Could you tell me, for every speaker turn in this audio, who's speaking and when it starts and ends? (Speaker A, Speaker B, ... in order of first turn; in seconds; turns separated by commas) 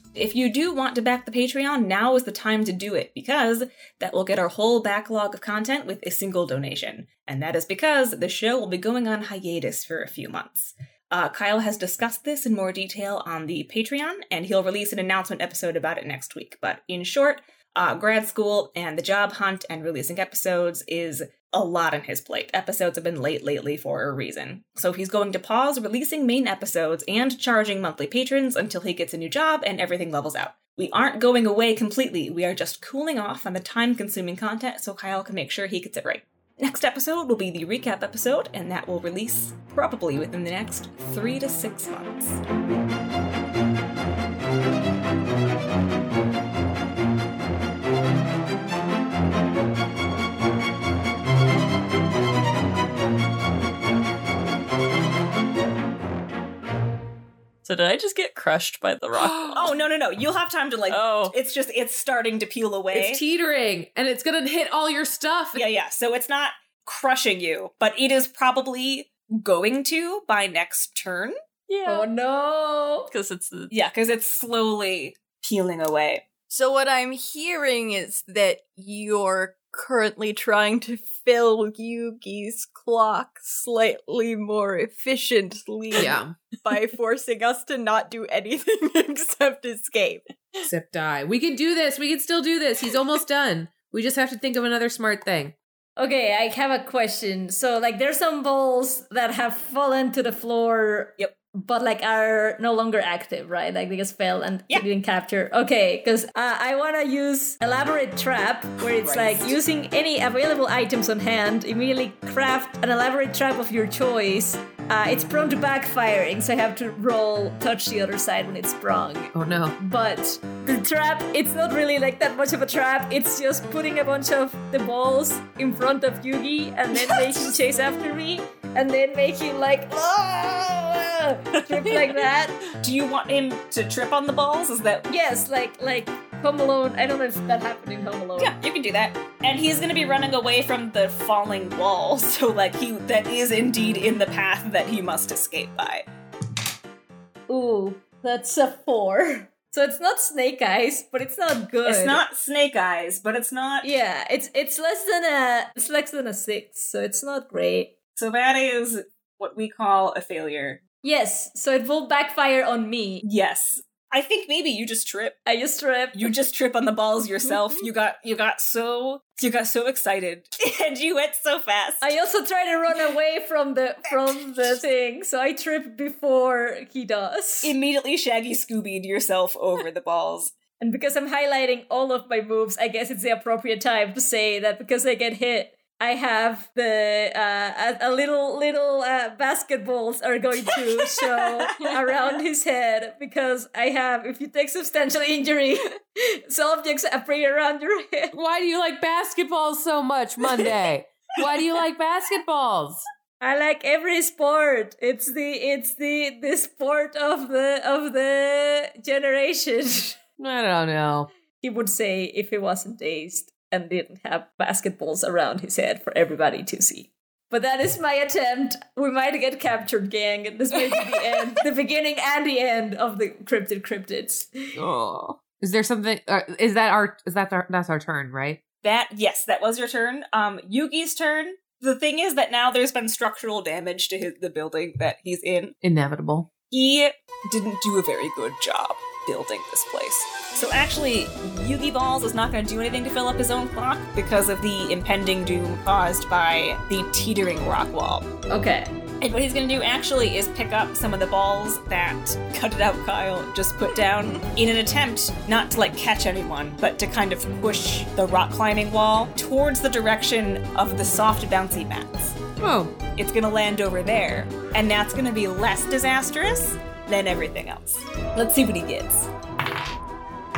Speaker A: 0.1-42.4, Speaker B: 57.6-59.7, Speaker A: 59.5-63.2, Speaker B: 60.9-61.3, Speaker C: 62.9-65.6, Speaker A: 65.5-71.3, Speaker B: 71.7-72.1, Speaker D: 71.8-73.1, Speaker B: 73.1-73.7, Speaker A: 73.7-76.2, Speaker E: 76.5-90.3, Speaker C: 86.0-86.3, Speaker C: 90.6-95.5, Speaker D: 96.0-132.6, Speaker A: 108.8-109.6, Speaker C: 119.3-119.8, Speaker B: 131.5-132.2, Speaker A: 132.8-135.1, Speaker D: 135.1-138.6, Speaker A: 138.4-146.1, Speaker D: 147.5-152.2, Speaker A: 151.8-153.9, Speaker D: 153.8-157.9, Speaker A: 158.2-160.8, Speaker D: 161.0-163.2, Speaker A: 163.2-165.4, Speaker D: 165.4-166.3, Speaker A: 166.1-172.2, Speaker D: 172.0-177.7, Speaker A: 174.1-174.7, Speaker A: 177.6-180.5, Speaker D: 180.8-198.3, Speaker C: 198.3-203.1, Speaker D: 203.4-210.2, Speaker C: 210.4-211.3, Speaker D: 211.6-224.8, Speaker C: 224.8-228.6, Speaker A: 228.8-235.7, Speaker C: 235.8-236.5, Speaker A: 236.7-248.3, Speaker D: 248.5-248.9, Speaker A: 249.2-262.4, Speaker C: 262.6-262.9, Speaker A: 263.1-269.3